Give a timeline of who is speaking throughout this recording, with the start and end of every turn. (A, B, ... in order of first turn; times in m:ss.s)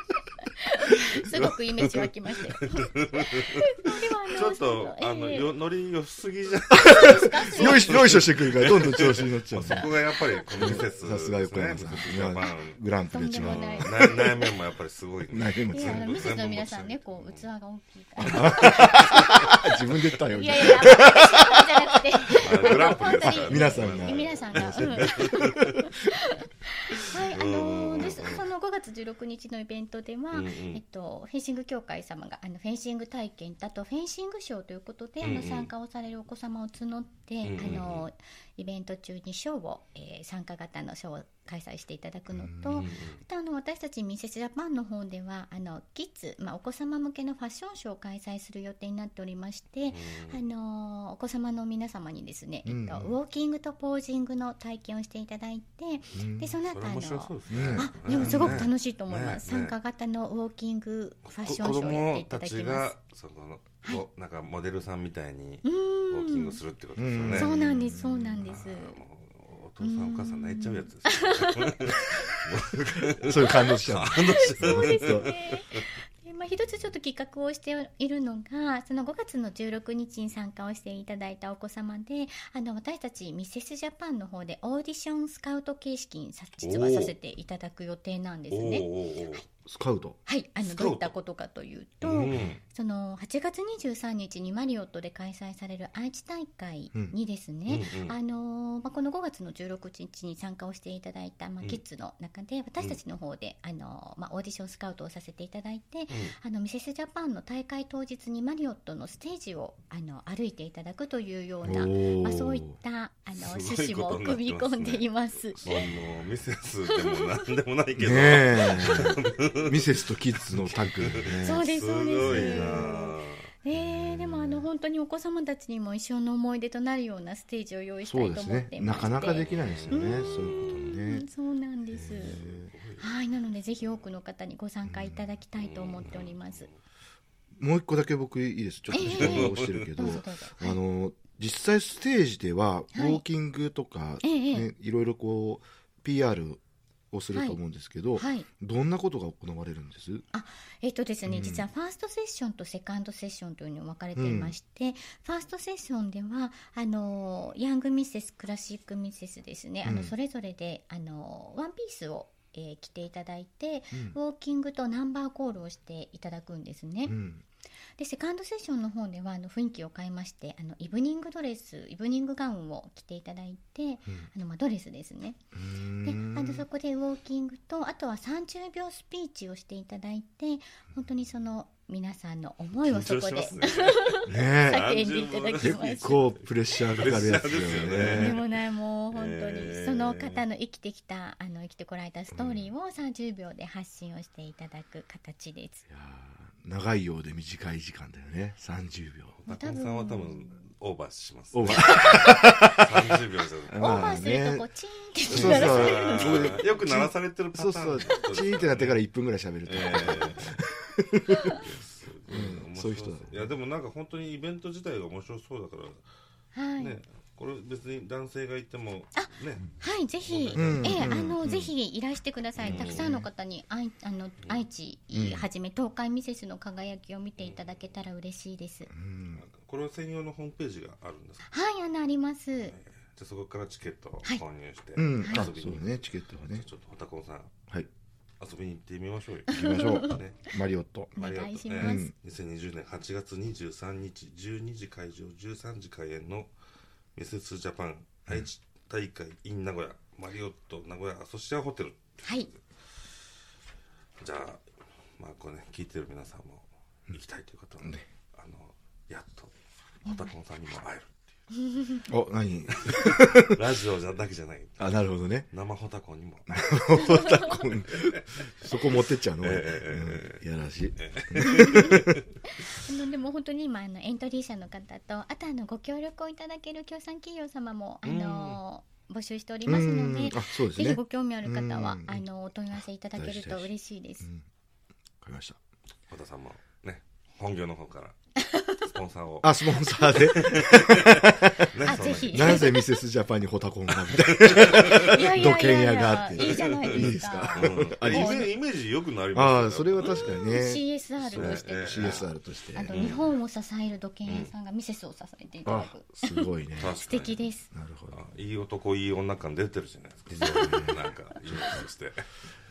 0:00.4-0:05.5 A
0:01.3-0:03.8 B
0:04.3-0:17.4 B
0:06.7-0:09.9 C
0:06.8-0:08.1 A
0:09.7-0:10.8 A
0:10.5-0:14.1 C
0:13.1-0:14.5 A
0:15.3-0:16.2 C
0:15.7-0:19.7 A
0:18.2-0:21.7 C
0:18.2-0:19.1 B
0:20.3-1:02.9 A
0:22.4-0:25.9 C
0:22.4-0:25.7 B
0:27.1-0:28.4 B
0:30.3-0:30.8 B
0:35.2-0:35.7 B
0:37.4-0:38.0 B
0:42.3-0:42.9 C
0:42.7-0:43.2 B
0:49.9-0:50.4 B
0:52.6-0:53.2 C
0:56.1-0:56.6 C
0:56.7-0:59.7 B
0:57.5-0:58.7 C
1:01.4-1:15.8 B
1:05.6-1:06.6 A
1:07.0-1:08.5 C
1:07.3-1:09.0 A
1:09.8-1:12.4 A
1:13.1-1:15.3 C
1:13.3-1:29.4 A
1:26.6-1:27.1 B
1:28.5-1:29.4 B
1:29.6-1:30.2 C
1:30.2-1:55.8 A
1:30.6-1:31.1 B
1:32.0-1:32.6 B
1:37.7-1:38.2 B
1:46.1-1:46.3 B
1:51.6-1:52.7 C
1:53.4-2:03.5 B
1:56.9-1:57.4 A
1:58.0-2:01.6 C
1:58.6-1:59.3 A
2:01.4-2:12.4 A
2:02.2-2:02.8 C
2:03.7-2:04.7 C
2:08.0-2:11.2 C
2:09.5-2:10.7 B
2:11.9-2:12.7 C
2:12.2-2:13.1 B
2:13.0-2:16.7 A
2:14.8-2:15.3 C
2:15.6-2:16.7 B
2:17.6-2:30.2 C
2:18.9-2:20.8 A
2:19.1-2:20.1 B
2:22.9-2:23.2 A
2:24.2-2:24.7 A
2:27.3-2:27.6 A
2:28.2-2:28.5 A
2:30.3-2:47.2 A
2:31.2-2:31.6 C
2:34.2-2:34.5 C
2:39.8-2:40.1 C
2:43.9-2:44.2 C
2:47.0-2:47.4 C
2:48.0-2:55.4 A
2:55.5-2:56.6 C
2:56.0-3:06.3 A
3:02.8-3:08.5 B
3:04.2-3:04.9 C
3:05.6-3:08.4 C
3:07.9-3:15.8 A
3:09.1-3:10.4 B
3:15.9-3:19.4 C
3:19.4-3:24.2 B
3:19.5-3:20.6 A
3:21.5-3:24.6 C
3:23.8-3:27.0 A
3:25.3-3:29.0 B
3:25.3-3:31.6 C
3:29.6-3:30.5 B
3:29.8-3:30.3 A
3:31.4-3:36.0 B
3:32.3-3:33.5 C
3:36.5-3:37.0 A
3:36.8-3:39.7 B
3:39.1-3:48.9 A
3:40.2-3:41.1 B
3:40.5-3:41.7 C
3:42.6-3:43.1 B
3:42.6-3:43.3 C
3:45.1-3:45.5 C
3:48.9-3:49.5 C
3:49.4-3:51.5 B
3:51.5-3:52.7 A
3:52.6-3:57.5 B
3:55.0-3:56.6 C
3:55.2-3:55.5 A
3:58.4-4:00.4 B
3:59.5-4:00.2 A
3:59.5-4:01.1 C
4:01.1-4:02.1 A
4:01.1-4:06.5 B
4:01.7-4:02.1 C
4:07.2-4:12.6 B
4:12.2-4:12.5 A
4:14.2-4:14.6 B
4:15.2-4:19.5 B
4:20.0-4:21.3 B
4:21.6-4:22.0 A
4:22.1-4:23.6 C
4:22.7-4:24.8 B
4:24.8-4:25.5 C
4:25.5-4:26.6 B
4:26.5-4:32.2 C
4:26.9-4:27.7 A
4:27.9-4:30.4 B
4:31.0-4:32.2 B
4:31.4-4:44.3 A
4:38.0-4:38.6 B
4:39.6-4:42.2 C
4:43.2-4:43.7 C
4:45.2-4:45.6 C
4:46.1-4:48.2 B
4:48.4-4:48.8 A
4:48.7-4:52.8 B
4:49.4-4:58.5 C
4:50.0-4:50.5 A
4:51.8-4:52.8 A
4:54.0-4:55.2 B
4:54.8-4:58.5 A
4:56.4-5:00.4 B
4:59.3-5:00.8 C
5:00.2-5:07.7 A
5:01.2-5:02.3 B
5:01.3-5:03.1 C
5:02.9-5:03.3 B
5:04.2-5:04.5 B
5:05.6-5:06.9 C
5:06.8-5:07.4 B
5:07.7-5:08.2 C
5:08.1-5:12.2 B
5:10.3-5:11.8 C
5:10.4-5:11.0 A